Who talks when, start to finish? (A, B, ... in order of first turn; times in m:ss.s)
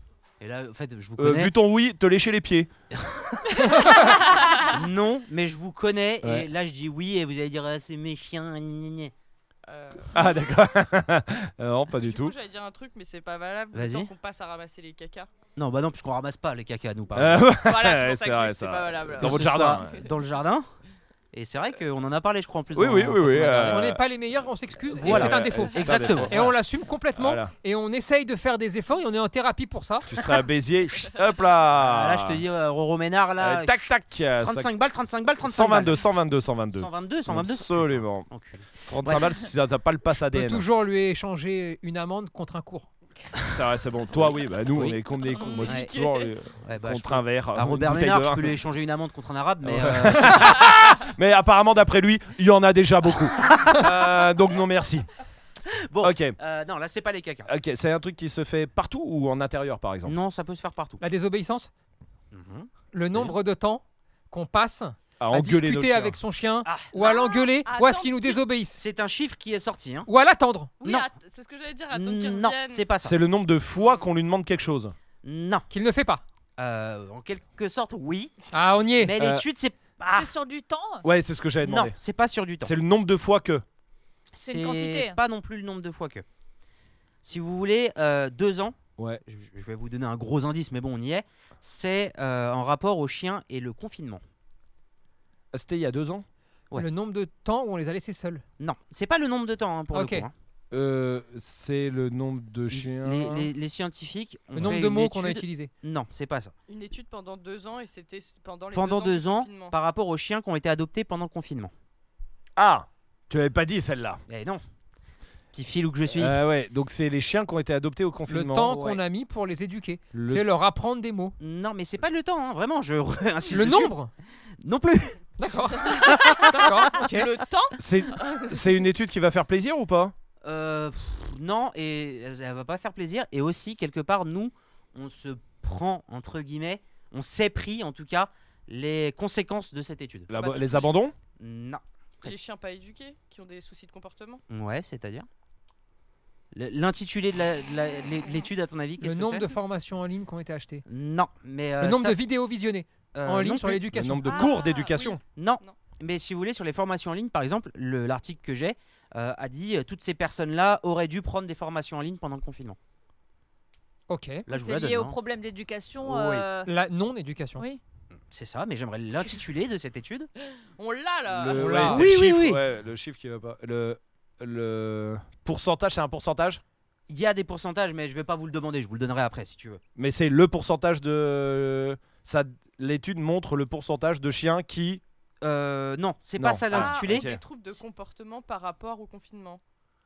0:00.4-0:01.5 A
0:01.2-0:02.7 B
0:02.9-0:09.1 A
0:03.6-0:04.7 C
0:06.2-0:06.5 B
0:09.6-0:10.3 D
0:10.1-0:12.3 B
0:11.9-0:15.3 D
0:13.7-0:14.1 A
0:15.6-0:17.5 A
0:17.1-0:20.0 B
0:17.5-0:20.1 D
0:19.2-0:20.7 A
0:21.3-0:23.9 A
0:22.7-0:24.0 B
0:23.6-0:30.1 E
0:24.9-0:26.4 A
0:25.0-0:26.5 B
0:27.2-0:27.5 B
0:30.0-0:32.4 B
0:31.8-0:33.8 A
0:33.4-0:34.7 B
0:34.4-0:36.0 A
0:35.4-0:38.3 B
0:36.7-0:39.3 A
0:38.9-0:40.6 B
0:40.3-0:42.9 E
0:43.5-0:48.6 B
0:44.7-0:45.0 A
0:45.3-0:45.7 C
0:45.5-0:46.1 D
0:45.6-0:46.0 A
0:46.6-0:50.7 A
0:49.6-0:55.1 B
0:53.7-0:54.0 A
0:55.7-0:57.5 A
0:56.0-0:56.4 B
0:57.5-1:00.1 B
1:00.0-1:01.0 A
1:01.0-1:01.7 E
1:02.3-1:02.7 A
1:02.9-1:08.8 E
1:05.2-1:06.2 B
1:07.0-1:08.4 D
1:08.7-1:10.1 A
1:10.0-1:10.7 E
1:10.8-1:12.8 D
1:11.9-1:13.2 A
1:13.0-1:14.9 B
1:13.7-1:14.1 D
1:15.2-1:15.7 A
1:15.7-1:16.2 E
1:16.6-1:18.3 A
1:18.5-1:19.1 E
1:19.0-1:20.3 A
1:19.2-1:19.4 B
1:20.1-1:21.0 C
1:21.0-1:22.0 B
1:21.6-1:22.7 A
1:22.6-1:23.6 B
1:24.3-1:26.2 A
1:24.4-1:25.2 C
1:27.2-1:34.2 A
1:35.5-1:36.2 B
1:36.7-1:38.4 E
1:38.6-1:40.3 A
1:39.9-1:40.3 E
1:40.7-1:43.5 B
1:42.7-1:46.5 A
1:44.6-1:45.7 E
1:46.7-1:49.7 D
1:48.7-1:51.7 A
1:52.6-1:54.2 B
1:54.3-1:54.6 A
1:55.5-1:56.4 A
1:56.1-1:58.8 B
1:58.3-2:01.3 E
1:58.7-1:59.0 A
2:00.1-2:00.4 B
2:01.4-2:03.9 A
2:03.5-2:04.1 E
2:04.6-2:05.2 A
2:05.4-2:07.3 E
2:05.7-2:06.7 A
2:06.3-2:08.5 D
2:07.8-2:10.1 B
2:10.4-2:20.3 A
2:20.3-2:21.1 B
2:20.3-2:21.0 D
2:21.4-2:22.4 A
2:22.2-2:24.4 D
2:24.5-2:25.3 A
2:26.5-2:29.5 A
2:29.0-2:30.8 E
2:30.9-2:32.2 A
2:31.8-2:34.5 E
2:33.1-2:33.8 A
2:33.9-2:35.2 B
2:34.3-2:35.7 D
2:35.4-2:42.8 A
2:44.1-2:44.4 E
2:44.5-2:45.2 A
2:44.5-2:46.7 C
2:46.0-2:46.4 A
2:46.6-2:47.6 E
2:48.3-2:50.3 A
2:50.8-2:51.9 D
2:51.3-2:56.6 B
2:51.5-2:52.0 E
2:51.8-2:52.6 A
2:57.1-2:59.8 A
3:00.0-3:05.0 B
3:05.4-3:07.3 A
3:06.4-3:07.4 B
3:06.7-3:09.6 D